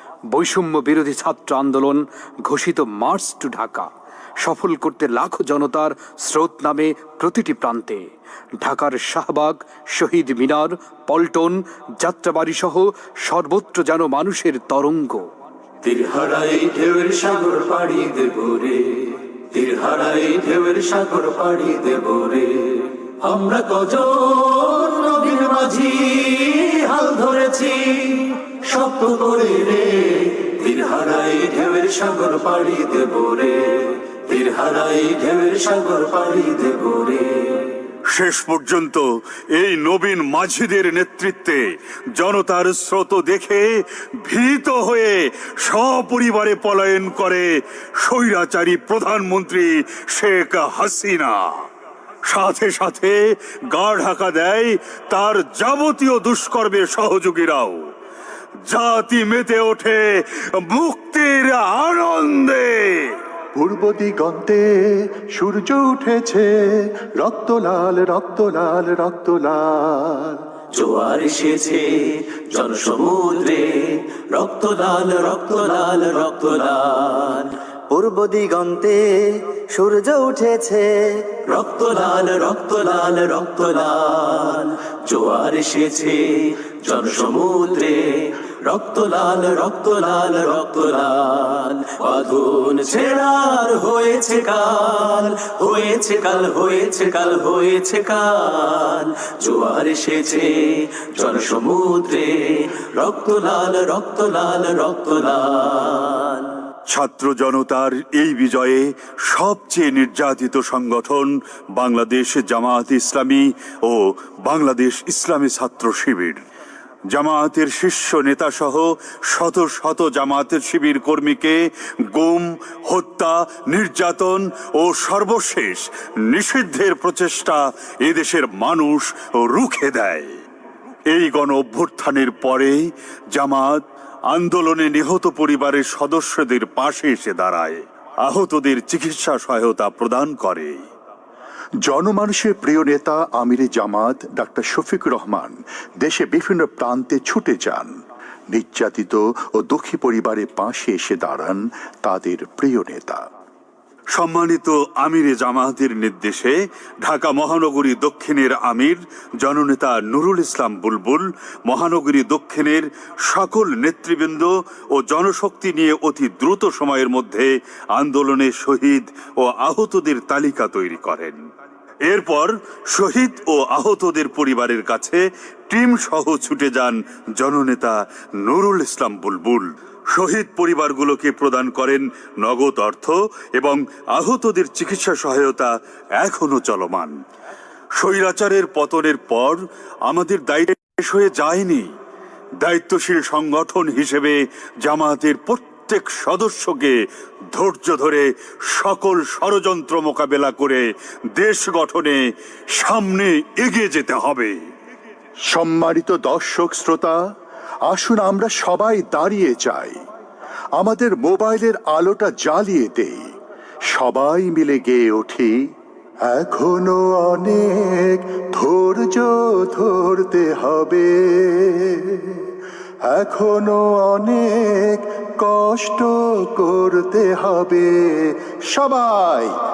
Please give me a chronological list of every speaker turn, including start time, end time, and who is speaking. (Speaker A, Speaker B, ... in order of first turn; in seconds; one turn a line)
Speaker A: 0.3-3.9
Speaker A: 4.4-8.1
Speaker A: 8.6-15.2
Speaker B: 15.8-37.8
Speaker C: 38.1-51.5
Speaker C: 52.3-53.2
Speaker C: 53.7-57.9
Speaker C: 58.7-63.1
Speaker D: 63.5-70.4
Speaker B: 70.7-77.5
Speaker E: 77.9-81.2
Speaker B: 81.5-106.5
Speaker C: 106.9-116.4
Speaker C: 117.1-130.3
Speaker C: 131.1-140.8
Speaker D: 141.8-147.9
Speaker D: 148.5-153.2
Speaker C: 154.1-171.4
Speaker C: 172.1-187.2
Speaker C: 188.0-191.9
Speaker C: 192.6-197.0
Speaker C: 197.5-204.6
Speaker D: 205.5-207.2
Speaker D: 207.9-210.0
Speaker D: 210.8-213.3
Speaker D: 213.9-215.6
Speaker D: 216.2-222.5
Speaker D: 223.0-229.5